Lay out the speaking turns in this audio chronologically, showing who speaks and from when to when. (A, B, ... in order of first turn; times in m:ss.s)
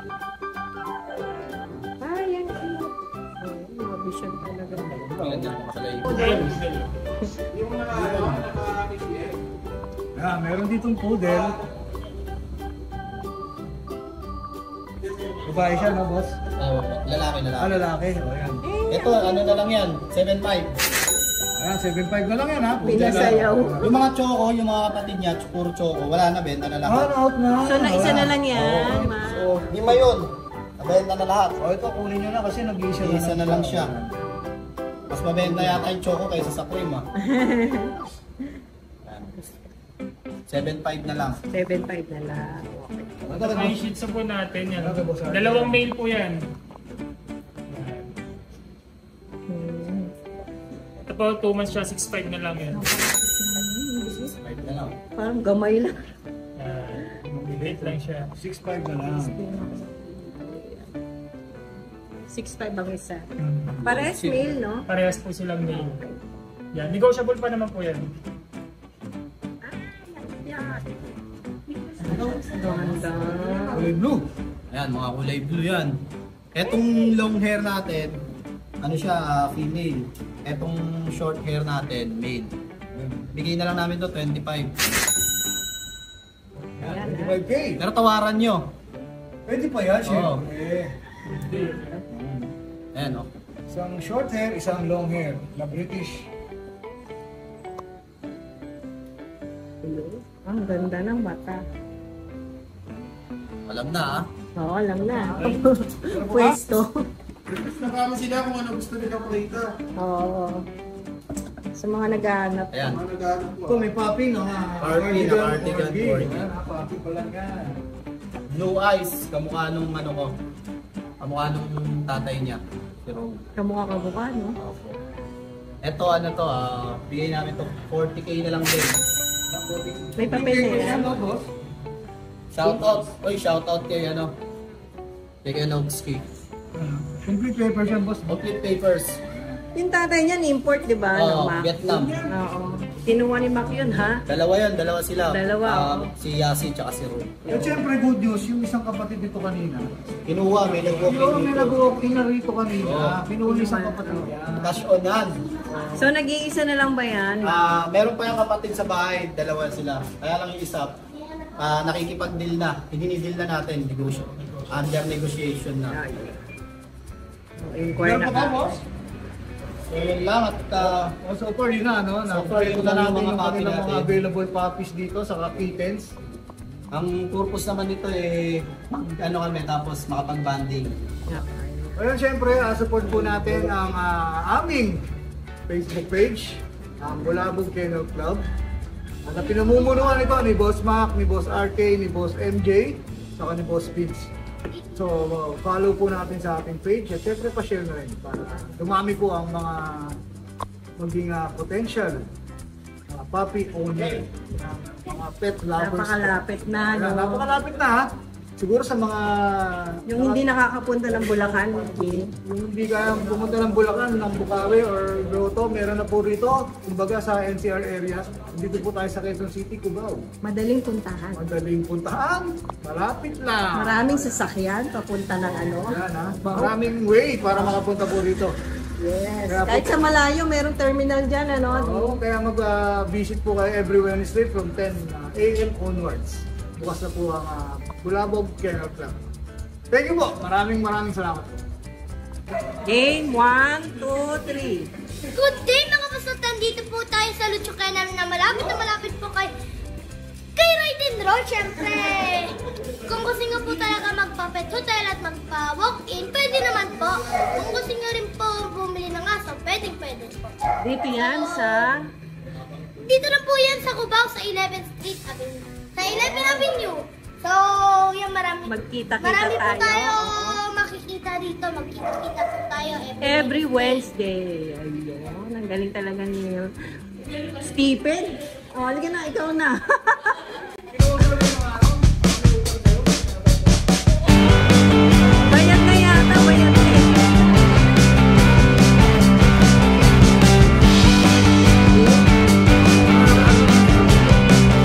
0:02.0-0:05.0 A
0:04.7-0:05.6 B
0:05.2-0:06.5 C
0:06.0-0:06.9 D
0:07.5-0:09.4 E
0:07.9-0:08.5 B
0:10.2-0:11.6 B
0:11.2-0:11.6 E
0:15.0-0:16.0 E
0:15.4-0:16.4 B
0:16.6-0:17.7 C
0:17.6-0:18.6 B
0:18.6-0:19.4 A
0:18.9-0:20.7 C
0:21.6-0:24.0 B
0:22.8-0:23.9 A
0:22.9-0:27.1 C
0:26.8-0:30.0 B
0:27.6-0:29.6 A
0:27.9-0:28.7 C
0:29.7-0:31.6 C
0:31.6-0:34.2 B
0:33.0-0:33.9 C
0:35.1-0:37.1 C
0:35.4-0:35.9 B
0:37.2-0:38.0 A
0:39.0-0:39.4 C
0:40.5-0:41.4 C
0:41.5-0:43.2 A
0:43.2-0:43.8 B
0:43.4-0:46.5 D
0:44.7-0:45.9 B
0:47.7-0:48.2 D
0:49.5-0:50.1 A
0:51.0-0:52.8 D
0:52.7-0:54.3 A
0:54.2-0:55.0 C
0:55.2-0:56.0 A
0:56.6-0:58.3 D
0:57.3-0:59.4 B
0:59.1-1:00.9 A
1:02.3-1:03.3 A
1:03.4-1:03.7 D
1:03.7-1:04.6 C
1:03.8-1:04.8 A
1:04.9-1:06.0 D
1:05.8-1:06.2 A
1:06.7-1:08.1 D
1:09.6-1:11.1 A
1:11.8-1:13.8 A
1:12.8-1:13.2 C
1:13.7-1:14.2 B
1:14.7-1:16.0 C
1:16.5-1:18.2 C
1:18.8-1:22.6 C
1:22.9-1:23.3 B
1:23.3-1:24.8 C
1:26.8-1:27.8 B
1:26.8-1:27.4 A
1:27.8-1:28.7 C
1:29.5-1:30.9 B
1:30.0-1:30.4 C
1:31.5-1:32.0 A
1:32.1-1:32.5 B
1:32.9-1:33.3 C
1:33.7-1:36.3 B
1:39.8-1:41.6 A
1:43.7-1:44.2 C
1:44.6-1:47.1 A
1:45.0-1:46.6 B
1:47.5-1:49.7 E
1:50.0-1:50.6 A
1:51.8-1:52.8 A
1:52.7-1:53.0 C
1:52.8-1:53.9 E
1:53.7-1:57.8 B
1:54.8-1:56.5 C
1:58.5-2:00.4 C
2:01.2-2:03.4 C
2:03.6-2:04.6 A
2:04.6-2:05.0 C
2:05.8-2:09.0 C
2:09.5-2:11.5 B
2:10.2-2:11.1 A
2:12.5-2:14.4 C
2:15.4-2:16.3 C
2:16.8-2:18.4 B
2:18.3-2:19.2 C
2:19.3-2:19.6 B
2:19.8-2:21.7 A
2:21.1-2:22.2 C
2:21.9-2:22.2 E
2:22.3-2:24.2 A
2:24.3-2:27.4 C
2:25.2-2:26.1 A
2:27.5-2:27.8 A
2:27.5-2:29.9 B
2:30.3-2:31.8 C
2:31.0-2:34.8 B
2:32.8-2:33.2 C
2:33.4-2:34.3 A
2:34.6-2:35.4 C
2:35.9-2:37.9 A
2:37.4-2:41.0 C
2:41.6-2:46.0 C
2:45.9-2:46.4 A
2:47.6-2:48.8 A
2:48.0-2:48.8 B
2:49.9-2:51.1 C
2:50.8-2:56.1 B
2:52.3-2:54.2 C
2:56.9-3:01.0 C
3:01.3-3:02.0 A
3:02.0-3:05.0 B
3:05.7-3:08.4 B
3:09.3-3:14.3 B
3:14.9-3:20.2 B
3:21.0-3:22.3 B
3:23.1-3:26.4 B
3:24.0-3:24.2 C
3:25.8-3:27.5 A
3:26.9-3:28.1 B
3:28.6-3:30.4 B
3:30.1-3:32.3 A
3:32.4-3:40.2 B
3:40.4-3:41.4 A
3:41.4-3:44.3 B
3:43.8-3:46.8 A
3:45.8-3:48.6 B
3:49.0-3:52.2 A
3:49.5-3:50.0 B
3:51.7-3:59.2 B
3:59.9-4:01.6 B
4:02.8-4:04.9 A
4:05.3-4:09.5 F
4:10.6-4:12.5 F
4:13.1-4:20.4 F
4:20.8-4:22.1 A
4:21.2-4:21.9 F
4:23.0-4:34.0 F
4:26.0-4:26.8 A
4:28.6-4:30.6 A
4:33.2-4:36.7 A
4:37.3-4:40.5 A
4:40.9-4:43.7 B
4:45.5-4:47.4 A
4:52.0-4:52.2 A
4:53.1-4:54.0 A
4:53.1-4:53.8 B